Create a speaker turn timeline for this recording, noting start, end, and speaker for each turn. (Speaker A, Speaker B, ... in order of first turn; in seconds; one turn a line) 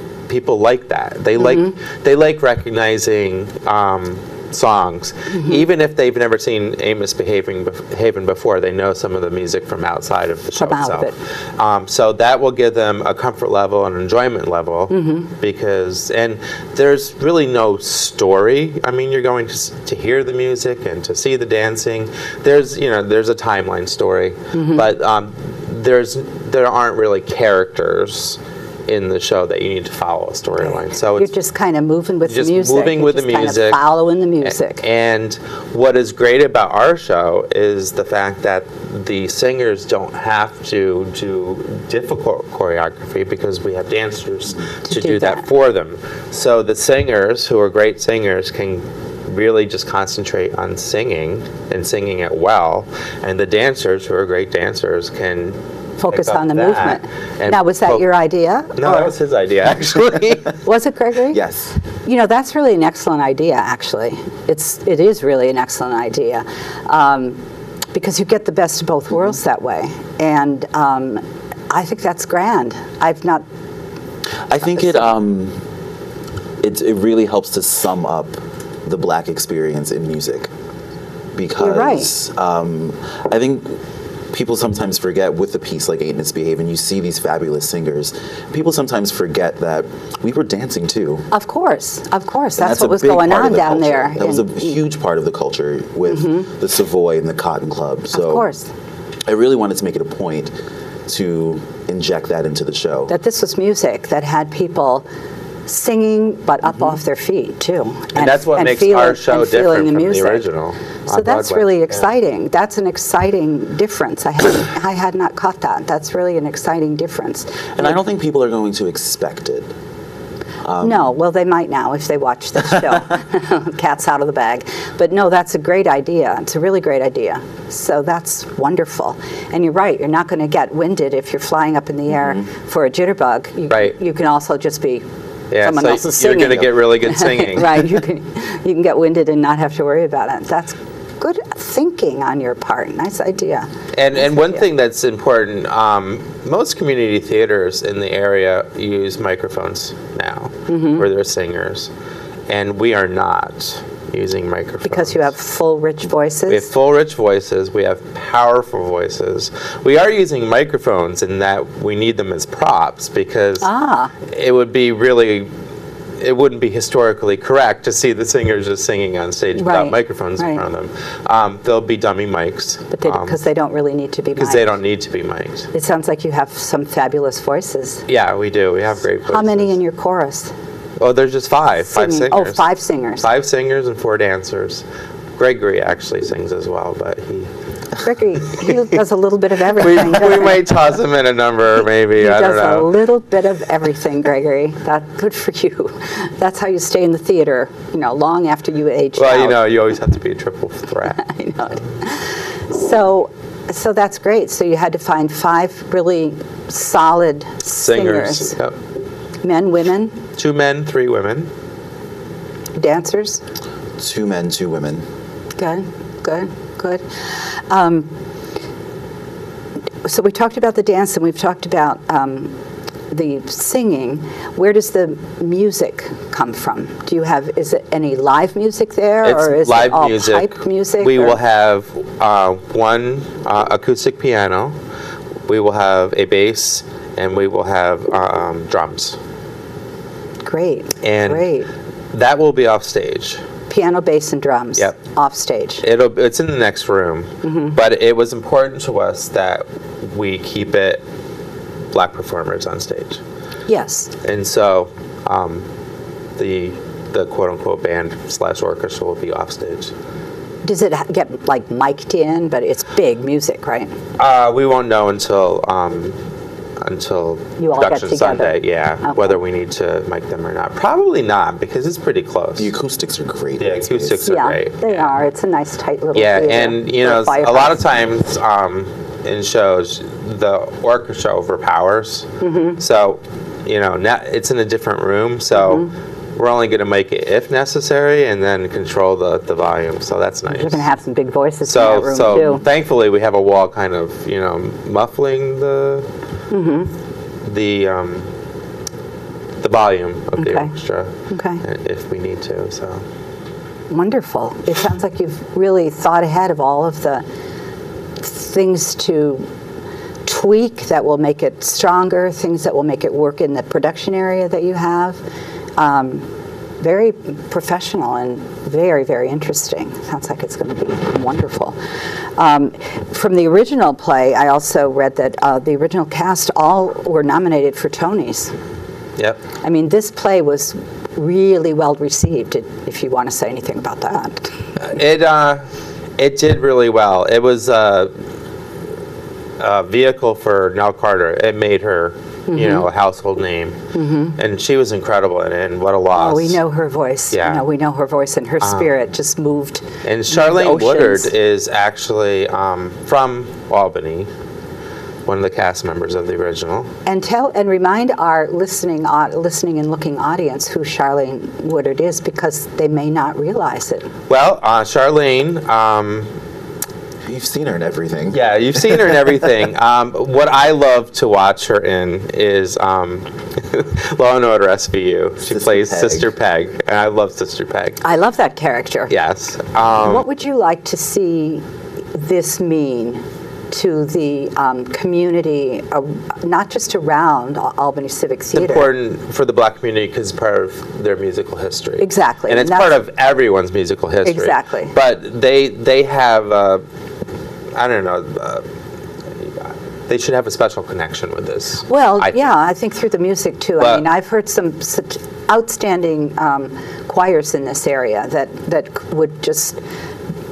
Speaker A: 0.3-31.3
Speaker B: 1.4-1.7
Speaker B: 5.3-5.6
Speaker B: 10.6-11.1
Speaker B: 14.9-15.3
Speaker B: 24.5-24.9
Speaker B: 30.6-34.8
Speaker A: 32.3-33.8
Speaker A: 34.4-58.0
Speaker B: 44.9-45.5
Speaker B: 56.0-59.1
Speaker A: 58.8-60.6
Speaker B: 60.6-61.4
Speaker C: 61.3-61.8
Speaker B: 62.0-67.4
Speaker B: 67.9-73.4
Speaker C: 74.5-75.6
Speaker C: 76.6-80.5
Speaker C: 81.3-83.8
Speaker B: 81.6-82.1
Speaker C: 84.3-91.3
Speaker B: 91.3-94.8
Speaker C: 92.6-98.5
Speaker B: 96.1-96.5
Speaker B: 98.1-98.7
Speaker C: 99.2-100.5
Speaker C: 101.0-103.1
Speaker B: 103.1-105.0
Speaker B: 105.7-110.5
Speaker A: 108.1-112.1
Speaker B: 111.1-118.0
Speaker C: 117.8-119.7
Speaker C: 120.6-121.1
Speaker B: 120.8-135.0
Speaker C: 122.7-123.0
Speaker A: 135.5-138.0
Speaker B: 135.6-144.6
Speaker A: 143.9-151.9
Speaker B: 150.7-151.0
Speaker A: 152.5-155.3
Speaker B: 154.8-156.7
Speaker A: 156.5-163.7
Speaker B: 163.6-164.1
Speaker A: 164.2-165.5
Speaker A: 166.2-173.4
Speaker B: 169.6-170.6
Speaker B: 172.9-174.7
Speaker A: 174.4-175.7
Speaker B: 175.7-178.0
Speaker A: 178.1-179.7
Speaker B: 179.3-180.5
Speaker A: 181.0-182.6
Speaker B: 181.8-183.3
Speaker A: 183.2-184.8
Speaker A: 185.4-187.5
Speaker B: 188.0-190.6
Speaker A: 189.7-192.9
Speaker B: 192.2-199.6
Speaker A: 199.2-201.2
Speaker B: 201.2-208.6
Speaker A: 207.8-208.7
Speaker B: 209.4-210.2
Speaker A: 210.4-211.5
Speaker B: 212.8-213.4
Speaker C: 214.0-215.0
Speaker B: 215.6-218.1
Speaker B: 220.0-222.6
Speaker B: 223.1-231.4
Speaker A: 229.2-234.7
Speaker A: 235.5-239.2
Speaker B: 240.4-241.7
Speaker A: 241.0-241.5
Speaker A: 242.1-243.4
Speaker B: 243.7-245.8
Speaker A: 245.8-251.0
Speaker B: 247.4-247.7
Speaker A: 251.9-253.2
Speaker B: 253.7-254.1
Speaker A: 254.2-255.7
Speaker A: 256.4-259.9
Speaker B: 260.6-263.9
Speaker A: 264.2-266.2
Speaker A: 266.8-272.7
Speaker B: 267.6-269.4
Speaker C: 272.6-274.2
Speaker A: 273.6-275.2
Speaker B: 274.2-277.8
Speaker A: 276.1-290.8
Speaker B: 282.4-282.8
Speaker B: 285.5-285.9
Speaker B: 290.5-292.6
Speaker A: 291.7-296.1
Speaker B: 296.5-296.9
Speaker A: 297.4-298.3
Speaker A: 299.6-303.0
Speaker B: 300.4-300.7
Speaker B: 301.3-301.6
Speaker B: 303.9-307.2
Speaker B: 308.2-309.4
Speaker B: 310.2-315.2
Speaker B: 315.8-316.3
Speaker B: 316.8-321.8
Speaker B: 322.4-328.6
Speaker B: 329.6-334.6
Speaker A: 334.8-335.6
Speaker A: 336.2-338.1
Speaker A: 339.6-343.8
Speaker B: 342.5-342.9
Speaker B: 343.9-344.4
Speaker A: 344.4-346.6
Speaker B: 346.1-351.3
Speaker A: 347.3-347.6
Speaker A: 348.6-348.9
Speaker A: 350.0-354.3
Speaker A: 355.2-356.9
Speaker B: 357.1-364.1
Speaker A: 364.3-366.3
Speaker C: 367.2-369.0
Speaker A: 368.3-378.0
Speaker C: 375.5-376.3
Speaker B: 378.0-379.1
Speaker A: 379.1-380.2
Speaker B: 380.0-381.6
Speaker B: 382.1-388.9
Speaker A: 388.6-396.8
Speaker B: 392.0-392.9
Speaker B: 394.2-394.9
Speaker A: 397.7-398.6
Speaker A: 399.4-402.3
Speaker B: 401.9-409.8
Speaker A: 403.8-404.0